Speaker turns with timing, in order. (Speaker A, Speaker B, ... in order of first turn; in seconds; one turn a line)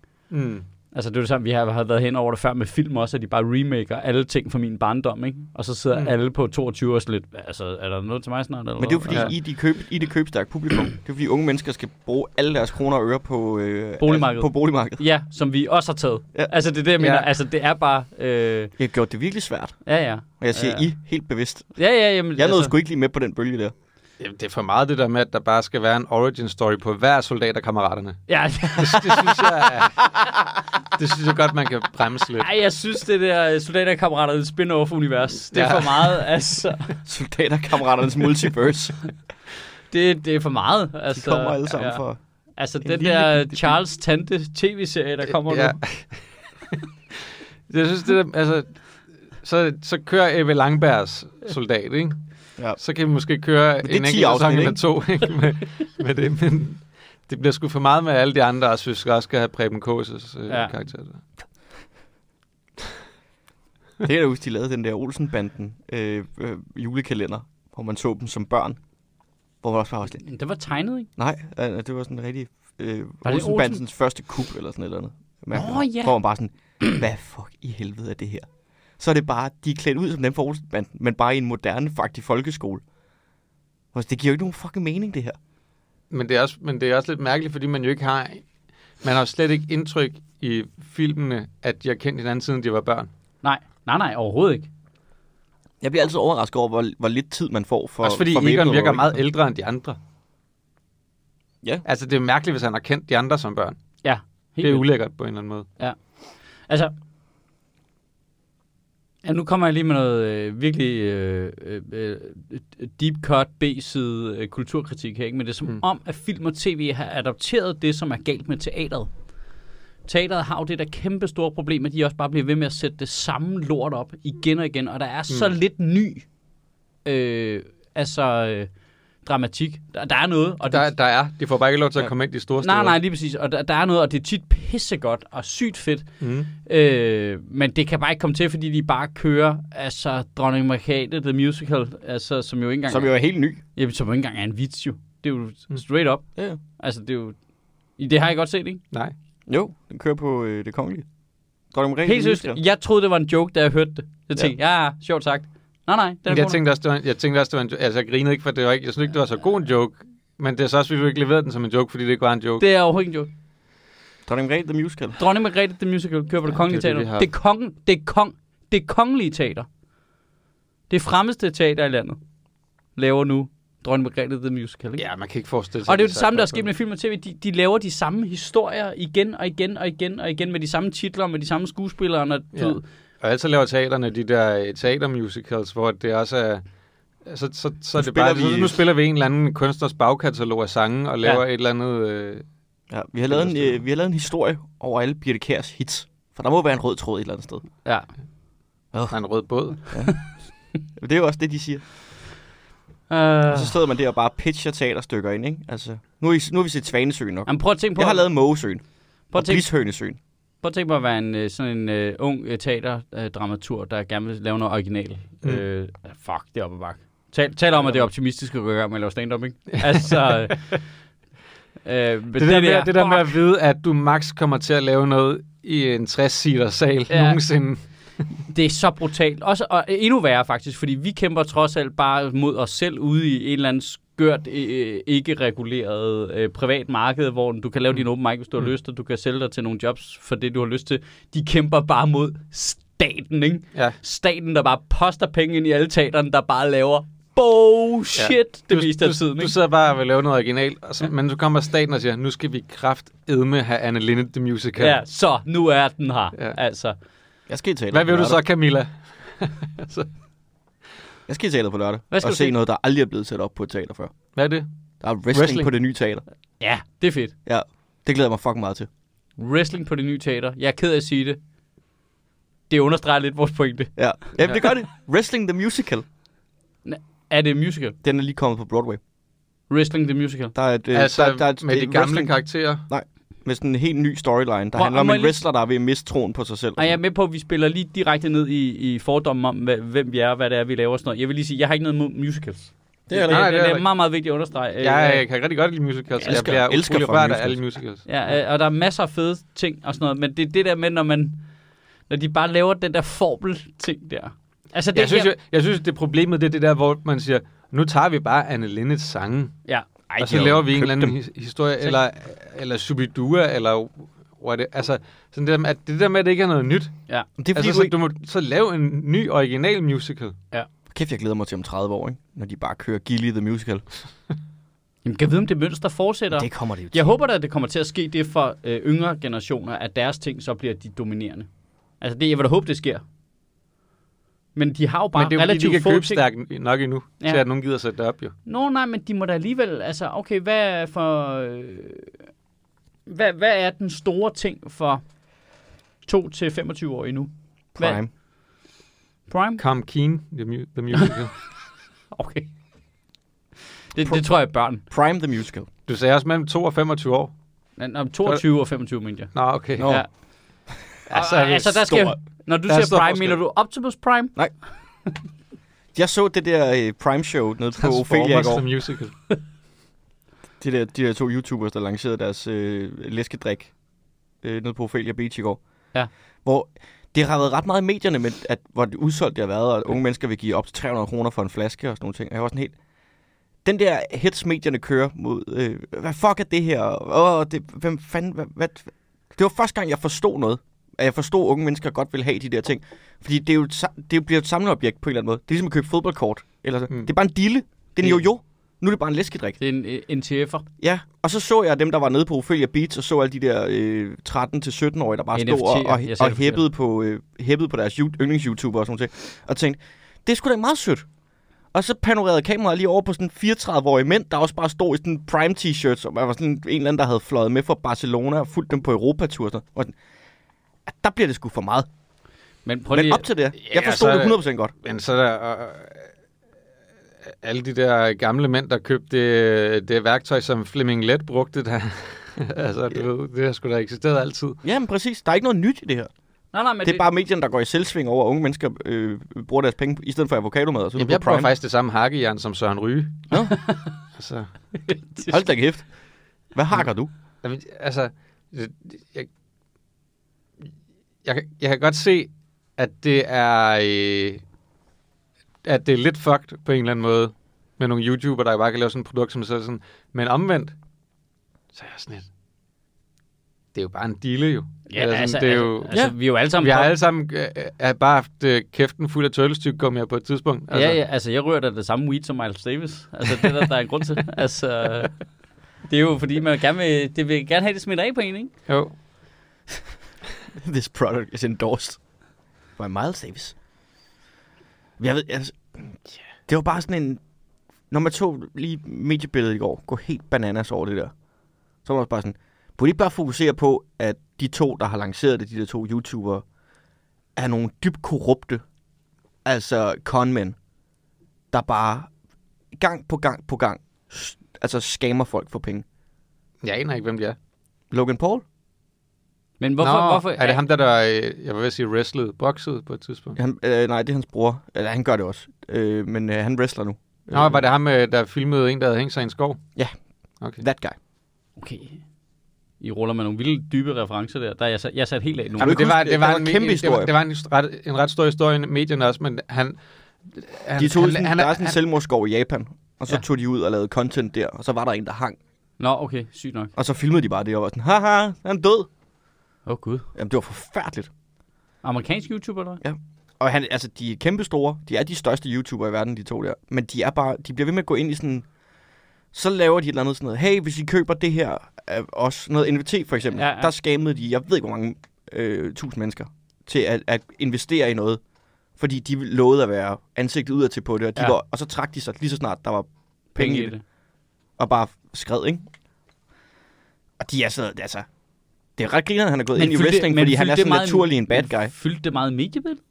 Speaker A: 0.3-0.6
Speaker B: 0.9-9.3
Speaker C: 8.8-15.0
Speaker B: 14.0-18.7
Speaker A: 17.0-17.3
Speaker C: 18.8-19.8
Speaker B: 19.8-20.9
Speaker C: 20.4-21.8
Speaker B: 21.7-22.7
Speaker C: 22.4-23.7
Speaker A: 24.2-30.2
Speaker B: 28.3-29.2
Speaker A: 30.9-32.5
Speaker B: 32.4-36.9
Speaker A: 35.5-36.2
Speaker C: 37.0-39.0
Speaker B: 39.9-42.0
Speaker C: 41.1-42.2
Speaker B: 42.6-45.8
Speaker C: 42.8-43.8
Speaker A: 45.5-46.7
Speaker A: 47.7-48.8
Speaker A: 49.4-52.2
Speaker A: 52.8-61.2
Speaker C: 53.8-54.8
Speaker B: 60.5-60.7
Speaker C: 64.0-68.8
Speaker C: 69.6-70.2
Speaker B: 70.2-71.1
Speaker C: 71.2-78.5
Speaker B: 73.2-73.8
Speaker B: 75.5-76.1
Speaker C: 79.0-82.8
Speaker C: 83.9-85.4
Speaker A: 86.1-88.4
Speaker A: 89.0-93.1
Speaker B: 93.4-94.7
Speaker C: 95.8-99.2
Speaker A: 98.0-100.0
Speaker A: 101.8-103.8
Speaker B: 104.0-104.9
Speaker A: 104.6-105.7
Speaker B: 106.7-106.9
Speaker B: 109.2-119.1
Speaker B: 120.0-126.2
Speaker B: 127.0-128.7
Speaker B: 129.2-130.9
Speaker A: 130.7-133.0
Speaker B: 132.6-136.0
Speaker A: 136.2-136.5
Speaker B: 136.6-143.1
Speaker C: 142.9-143.6
Speaker B: 143.7-146.3
Speaker B: 146.8-147.4
Speaker B: 148.0-148.8
Speaker C: 149.5-151.0
Speaker C: 151.7-152.6
Speaker B: 152.0-156.6
Speaker A: 156.3-162.6
Speaker B: 162.6-163.3
Speaker C: 164.2-165.2
Speaker B: 165.2-169.7
Speaker A: 166.5-167.3
Speaker B: 170.9-172.2
Speaker B: 172.9-175.0
Speaker A: 175.0-176.7
Speaker B: 175.8-182.8
Speaker A: 182.5-186.6
Speaker A: 187.2-192.4
Speaker C: 188.0-188.8
Speaker C: 192.9-197.6
Speaker A: 193.3-193.8
Speaker B: 197.8-198.1
Speaker C: 198.9-199.2
Speaker A: 199.1-199.9
Speaker C: 199.9-200.2
Speaker C: 200.9-201.8
Speaker B: 203.1-203.8
Speaker C: 203.5-210.2
Speaker B: 207.5-208.3
Speaker B: 209.3-209.7
Speaker B: 210.6-220.8
Speaker A: 219.8-220.6
Speaker B: 221.8-223.3
Speaker A: 222.4-227.8
Speaker B: 227.1-227.4
Speaker B: 228.5-249.5
Speaker A: 248.2-255.0
Speaker B: 254.8-256.9
Speaker C: 257.5-258.4
Speaker A: 257.9-260.1
Speaker C: 261.3-264.1
Speaker B: 262.1-262.5
Speaker A: 264.4-264.7
Speaker C: 265.0-266.2
Speaker A: 265.3-265.7
Speaker B: 266.6-267.3
Speaker C: 267.4-268.9
Speaker B: 269.4-271.4
Speaker B: 272.7-273.9
Speaker C: 273.9-276.0
Speaker B: 276.8-278.0
Speaker C: 278.0-279.0
Speaker B: 279.7-280.5
Speaker C: 280.5-287.0
Speaker A: 280.9-282.9
Speaker B: 284.7-285.4
Speaker B: 286.8-295.2
Speaker C: 293.1-293.5
Speaker A: 293.2-293.9
Speaker A: 294.8-298.1
Speaker B: 296.2-296.5
Speaker C: 296.2-297.6
Speaker B: 298.1-301.4
Speaker B: 302.1-305.3
Speaker A: 304.9-309.6
Speaker C: 310.1-311.2
Speaker A: 310.2-316.9
Speaker C: 317.4-317.9
Speaker A: 317.5-320.4
Speaker C: 320.9-323.8
Speaker B: 325.0-331.5
Speaker C: 326.3-327.1
Speaker B: 332.0-333.0
Speaker B: 334.5-336.2
Speaker A: 335.1-338.3
Speaker B: 338.4-342.1
Speaker B: 343.1-345.0
Speaker B: 346.1-348.0
Speaker C: 347.7-348.1
Speaker B: 349.3-349.6
Speaker A: 349.6-351.4
Speaker B: 352.1-352.5
Speaker B: 353.9-354.8
Speaker C: 354.8-355.7
Speaker A: 355.9-357.3
Speaker B: 357.8-360.1
Speaker A: 359.3-360.0
Speaker C: 359.8-360.0
Speaker A: 361.1-361.9
Speaker B: 361.1-364.3
Speaker C: 361.8-362.1
Speaker A: 362.7-363.4
Speaker C: 365.9-368.6
Speaker A: 367.8-369.1
Speaker C: 370.6-373.7
Speaker C: 374.4-375.6
Speaker C: 376.4-382.7
Speaker C: 383.6-399.6
Speaker B: 399.6-400.6
Speaker C: 400.8-411.1
Speaker B: 405.3-406.6
Speaker C: 411.7-419.9
Speaker C: 420.9-421.9
Speaker B: 422.6-423.2
Speaker C: 422.9-424.7
Speaker A: 423.6-426.1
Speaker A: 427.3-434.6
Speaker C: 434.6-436.1
Speaker B: 436.5-437.1
Speaker C: 436.8-441.5
Speaker A: 441.0-443.5
Speaker B: 443.5-443.8
Speaker A: 444.1-444.5
Speaker B: 444.9-445.3
Speaker C: 445.3-445.9
Speaker C: 446.5-447.1
Speaker A: 447.4-449.3
Speaker A: 451.2-454.4
Speaker A: 455.6-460.7
Speaker A: 461.7-462.3
Speaker A: 463.7-466.0
Speaker B: 464.9-466.9
Speaker A: 466.6-471.0
Speaker B: 470.7-475.2
Speaker B: 475.9-478.5
Speaker A: 478.7-478.9
Speaker C: 480.5-482.0
Speaker C: 482.8-483.5
Speaker C: 485.0-485.9
Speaker C: 486.5-487.2
Speaker C: 487.9-491.1
Speaker C: 491.8-496.4
Speaker C: 497.4-498.6
Speaker C: 499.4-500.6
Speaker C: 501.5-502.1
Speaker C: 502.8-505.8
Speaker A: 506.6-507.4
Speaker C: 507.9-508.4
Speaker B: 509.6-510.6
Speaker A: 509.8-513.4
Speaker C: 513.4-517.6
Speaker A: 517.3-519.6
Speaker C: 520.6-521.0
Speaker B: 521.6-522.0
Speaker B: 522.8-525.8
Speaker C: 525.6-527.1
Speaker A: 525.6-529.8
Speaker A: 530.3-531.8
Speaker C: 530.8-535.4
Speaker B: 535.8-536.7
Speaker C: 536.8-538.9
Speaker B: 539.7-540.1
Speaker C: 540.1-541.1
Speaker B: 541.8-542.8
Speaker C: 542.8-548.5
Speaker C: 549.3-558.2
Speaker B: 553.3-553.7
Speaker C: 558.8-563.7
Speaker B: 563.3-563.8
Speaker C: 564.6-565.6
Speaker C: 567.2-568.1
Speaker C: 568.8-571.7
Speaker B: 569.5-572.8